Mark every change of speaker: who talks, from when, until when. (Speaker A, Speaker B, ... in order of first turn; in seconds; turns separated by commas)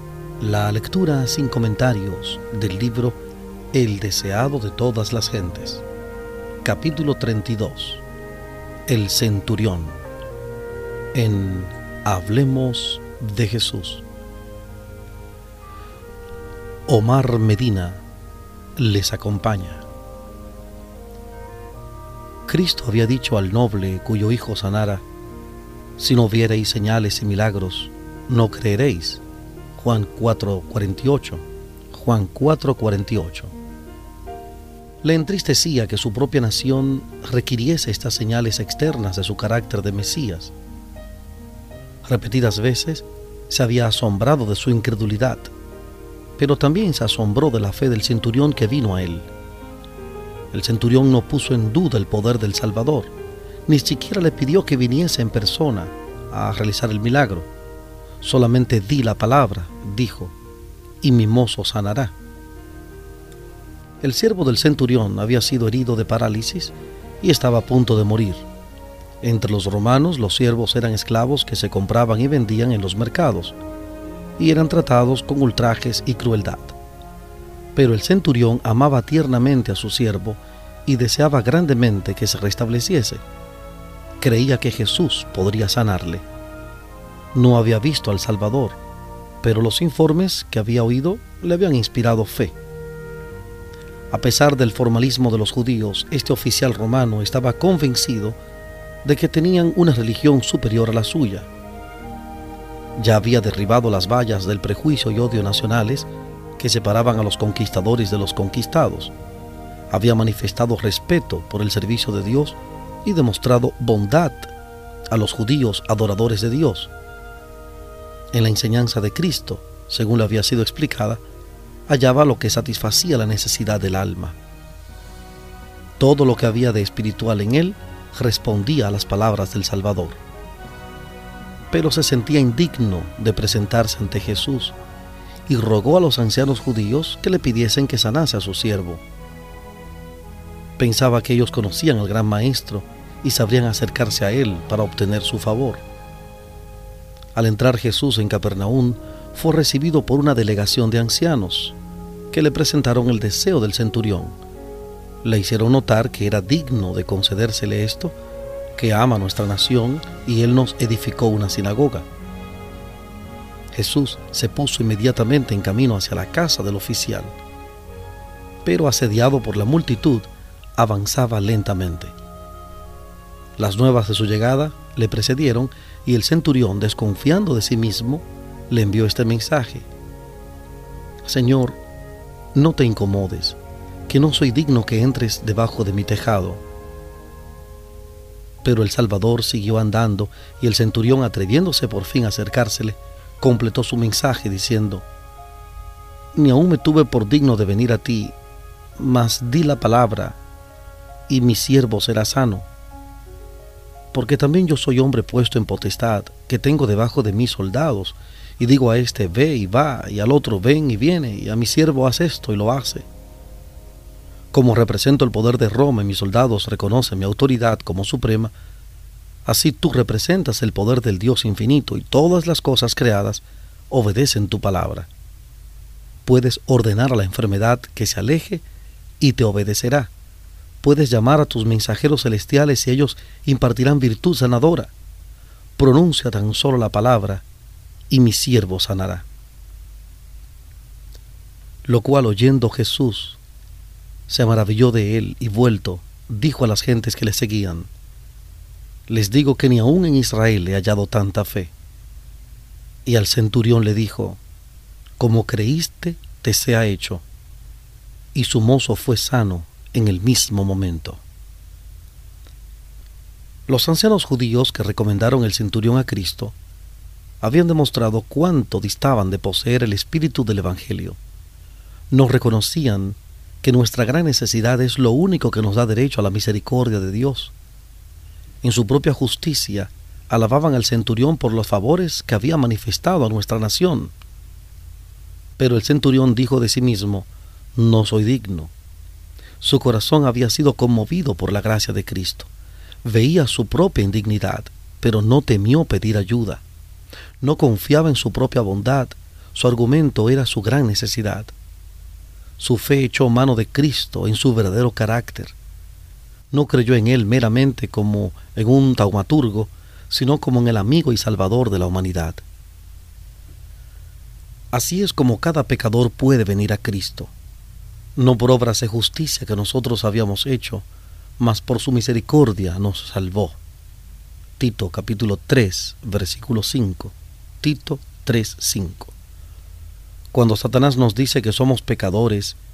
Speaker A: 0.4-3.2, Speaker A: 3.7-5.8, Speaker A: 6.6-8.0, Speaker A: 8.9-10.0, Speaker A: 11.1-14.0, Speaker A: 16.9-18.0, Speaker A: 18.8-19.8, Speaker A: 22.5-25.0, Speaker A: 26.0-29.2, Speaker A: 29.8-33.5, Speaker A: 35.0-40.5, Speaker A: 42.0-45.5, Speaker A: 46.4-49.3, Speaker A: 50.5-53.1, Speaker A: 53.6-57.5, Speaker A: 58.2-60.3, Speaker A: 61.0-62.1, Speaker A: 64.0-68.5, Speaker A: 69.2-73.6, Speaker A: 74.4-76.8, Speaker A: 77.7-83.2, Speaker A: 84.2-86.2, Speaker A: 87.3-88.8, Speaker A: 89.4-92.5, Speaker A: 94.1-98.4, Speaker A: 99.0-101.5, Speaker A: 103.0-109.1, Speaker A: 109.9-114.5, Speaker A: 115.1-116.9, Speaker A: 118.3-121.2, Speaker A: 121.9-124.4, Speaker A: 126.0-130.2, Speaker A: 131.7-134.8, Speaker A: 135.5-139.0, Speaker A: 140.8-145.8, Speaker A: 147.3-151.8, Speaker A: 152.3-154.4, Speaker A: 155.2-158.2, Speaker A: 158.8-162.1, Speaker A: 163.7-167.3, Speaker A: 168.6-172.1, Speaker A: 173.6-179.9, Speaker A: 181.2-181.8, Speaker A: 182.5-186.6, Speaker A: 188.6-195.1, Speaker A: 196.3-198.3, Speaker A: 199.0-200.4, Speaker A: 201.3-202.7, Speaker A: 204.1-213.1, Speaker A: 214.5-218.5, Speaker A: 219.4-225.1, Speaker A: 226.2-228.6, Speaker A: 229.2-230.1, Speaker A: 230.8-234.9, Speaker A: 235.8-237.4, Speaker A: 238.1-239.3, Speaker A: 241.8-243.4, Speaker A: 244.3-247.9, Speaker A: 249.1-251.7, Speaker A: 253.1-254.4, Speaker A: 255.2-257.2, Speaker A: 258.3-261.2, Speaker A: 263.7-266.6, Speaker A: 267.4-271.2, Speaker A: 272.1-277.5, Speaker A: 278.6-284.1, Speaker A: 285.6-288.7, Speaker A: 289.6-292.5, Speaker A: 293.0-296.6, Speaker A: 297.4-301.5, Speaker A: 302.6-305.6, Speaker A: 306.5-312.4, Speaker A: 314.7-317.3, Speaker A: 318.1-320.9, Speaker A: 321.4-323.6, Speaker A: 324.6-329.1, Speaker A: 330.3-332.6